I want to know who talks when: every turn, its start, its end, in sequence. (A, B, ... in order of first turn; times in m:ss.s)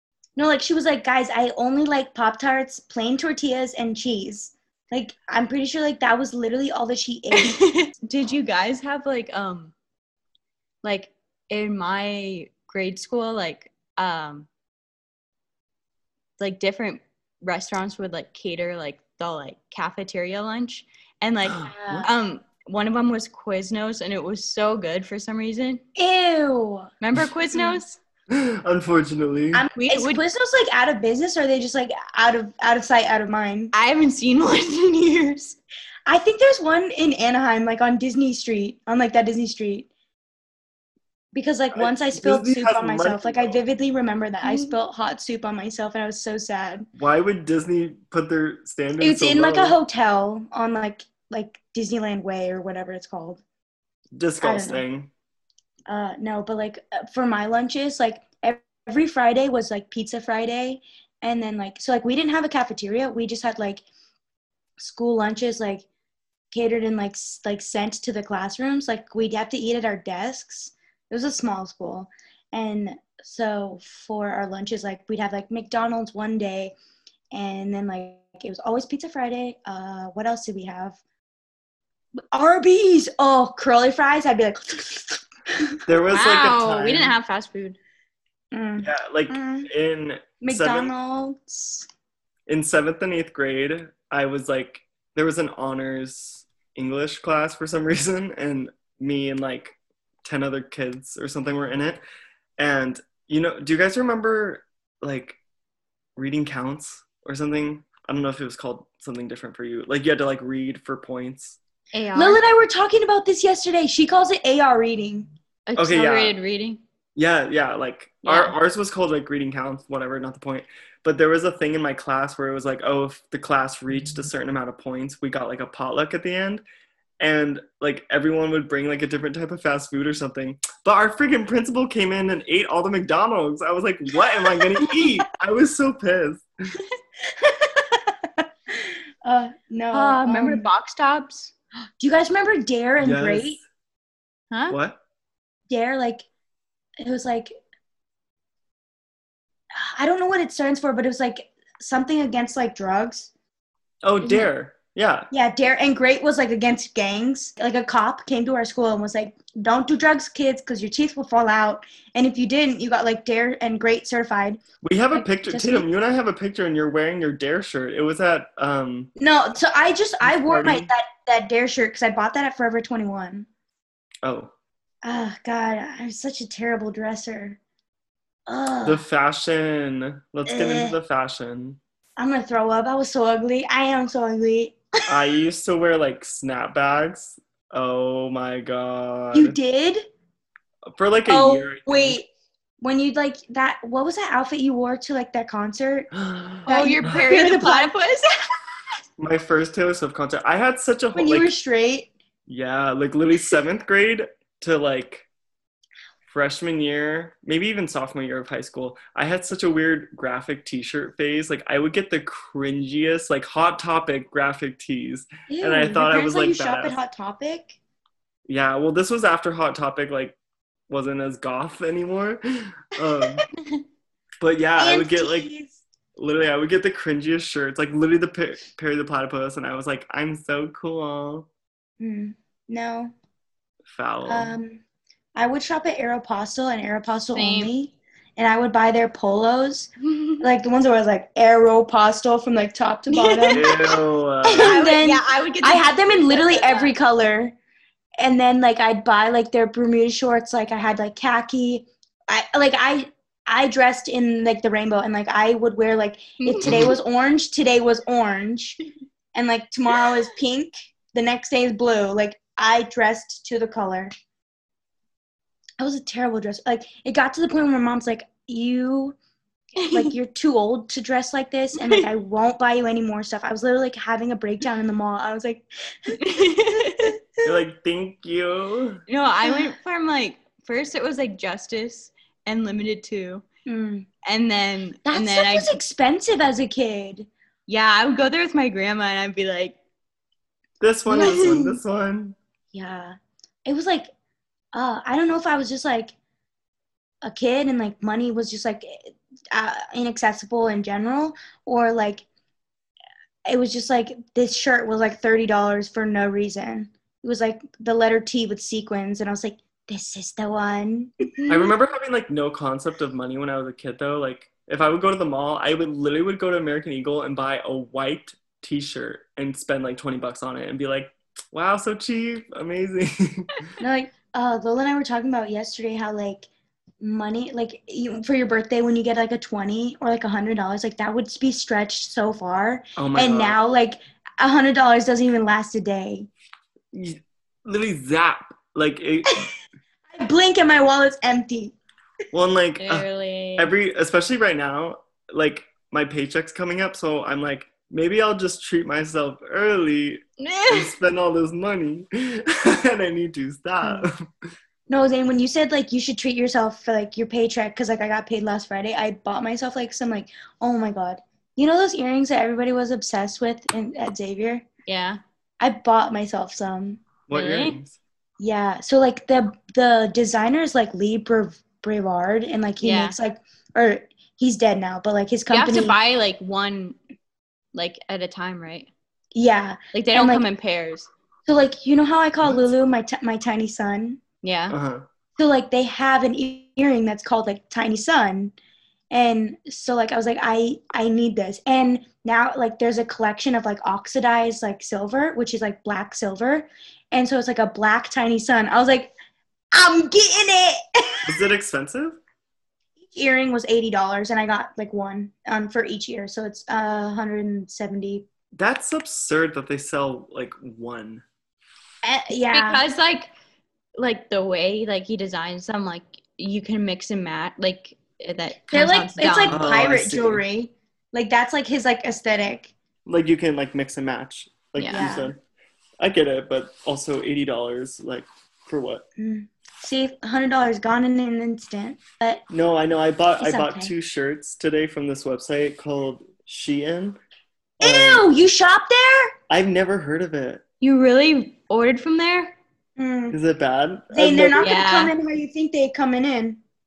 0:00.4-0:07.6 A
0:07.3-0:09.7 B
0:10.8-0:14.5 B
0:16.4-0:25.8 B
0:21.5-0:22.1 C
0:21.7-0:22.1 A
0:26.0-0:26.9 A
0:27.0-0:28.0 B
0:27.5-0:27.8 A
0:28.3-0:29.6 C
0:29.5-0:33.7 A
0:29.8-0:30.2 B
0:33.7-0:35.6 B
0:36.1-0:39.9 A
0:41.3-0:46.9 A
0:41.7-0:43.6 C
0:44.4-0:44.7 B
0:47.0-0:49.8 C
0:49.0-0:53.4 A
0:54.2-0:55.1 C
0:54.4-0:54.8 A
0:55.9-1:03.8 A
1:04.8-1:05.8 A
1:06.5-1:16.7 A
1:17.3-1:21.0 A
1:22.3-1:25.8 A
1:25.9-1:27.1 C
1:26.1-1:27.8 B
1:28.5-1:29.7 A
1:28.8-1:30.9 C
1:30.4-1:31.9 A
1:32.5-1:42.0 C
1:42.6-1:45.4 C
1:46.2-1:51.6 C
1:51.9-1:52.4 B
1:52.2-1:55.3 A
1:55.7-1:56.8 B
1:55.8-1:56.4 C
1:57.2-2:06.6 C
1:58.2-1:58.6 B
2:07.2-2:16.5 C
2:17.3-2:20.7 A
2:19.9-2:21.5 B
2:22.0-2:23.6 A
2:23.0-2:23.6 C
2:24.5-2:24.8 B
2:24.7-2:25.0 C
2:25.7-2:26.3 A
2:27.0-2:27.5 A
2:29.7-2:33.3 A
2:34.0-2:35.3 C
2:35.3-2:44.6 A
2:44.8-2:49.1 C
2:45.1-2:45.9 A
2:49.2-2:53.5 A
2:50.2-2:50.9 C
2:54.2-2:54.5 C
2:55.0-2:57.6 A
2:58.5-2:59.0 A
2:58.8-3:01.8 C
3:00.5-3:01.0 A
3:02.2-3:05.1 A
3:05.1-3:09.6 C
3:09.3-3:10.0 A
3:10.9-3:12.2 C
3:11.3-3:12.3 A
3:12.8-3:16.1 A
3:16.1-3:17.1 C
3:16.6-3:17.9 A
3:16.7-3:18.3 B
3:19.2-3:21.5 C
3:21.2-3:22.1 A
3:22.5-3:25.3 C
3:26.3-3:37.0 C
3:35.5-3:37.8 A
3:38.5-3:40.4 C
3:40.9-3:43.4 C
3:44.4-3:45.5 C
3:44.8-3:45.8 A
3:46.2-3:51.5 C
3:52.0-3:53.1 A
3:53.9-3:54.6 C
3:54.3-3:54.8 A
3:55.4-4:03.8 A
3:57.3-3:57.7 B
4:00.1-4:00.4 B
4:03.1-4:03.9 B
4:03.5-4:04.8 C
4:04.5-4:06.9 B
4:04.5-4:07.5 A
4:08.2-4:18.8 A
4:16.4-4:16.7 B
4:16.6-4:17.0 C
4:19.3-4:24.1 A
4:25.8-4:29.2 A
4:29.8-4:30.1 B
4:29.9-4:37.4 A
4:31.8-4:32.1 B
4:36.1-4:37.2 B
4:37.4-4:39.0 C
4:39.1-4:43.4 B
4:39.4-4:39.7 A
4:43.7-4:44.1 A
4:44.2-4:45.8 B
4:45.1-4:47.3 A
4:47.7-4:49.8 B
4:50.8-4:52.4 C
4:51.1-4:51.8 A
4:51.1-4:51.5 B
4:52.7-4:54.1 A
4:54.7-4:56.2 A
4:57.2-5:02.2 A
5:03.5-5:11.3 A
5:11.5-5:23.6 C
5:23.8-5:26.5 A
5:27.0-5:36.3 A
5:33.0-5:33.6 C
5:36.9-5:39.5 C
5:40.1-5:41.7 A
5:42.3-5:54.3 C
5:42.8-5:43.7 B
5:50.4-5:50.9 B
5:53.8-5:54.1 A
5:54.9-6:04.6 A
6:04.9-6:05.2 B
6:05.6-6:07.0 A
6:07.3-6:08.0 C
6:07.3-6:07.8 B
6:08.4-6:16.0 A
6:12.8-6:13.2 B
6:15.5-6:17.0 B
6:17.7-6:18.9 B
6:19.3-6:20.4 A
6:19.9-6:21.1 B
6:21.5-6:24.2 A
6:24.4-6:24.8 B
6:24.7-6:25.0 C
6:25.4-6:28.5 A
6:29.1-6:39.1 A
6:39.7-6:41.4 A
6:41.2-6:42.2 C
6:43.1-6:48.3 A
6:48.6-6:51.2 C
6:52.0-6:52.8 A
6:52.5-6:53.3 B
6:54.0-6:59.6 B
6:58.7-7:02.7 A
6:59.5-7:00.4 C
7:03.1-7:05.4 C
7:04.8-7:05.1 B
7:04.9-7:05.3 A
7:06.0-7:09.1 C
7:09.2-7:12.4 A
7:12.5-7:17.2 C
7:13.4-7:13.9 A
7:17.8-7:18.3 C
7:17.8-7:19.3 A
7:19.5-7:20.6 C
7:20.8-7:22.6 B
7:23.0-7:23.4 A
7:23.3-7:24.7 C
7:24.1-7:26.6 A
7:24.6-7:25.1 B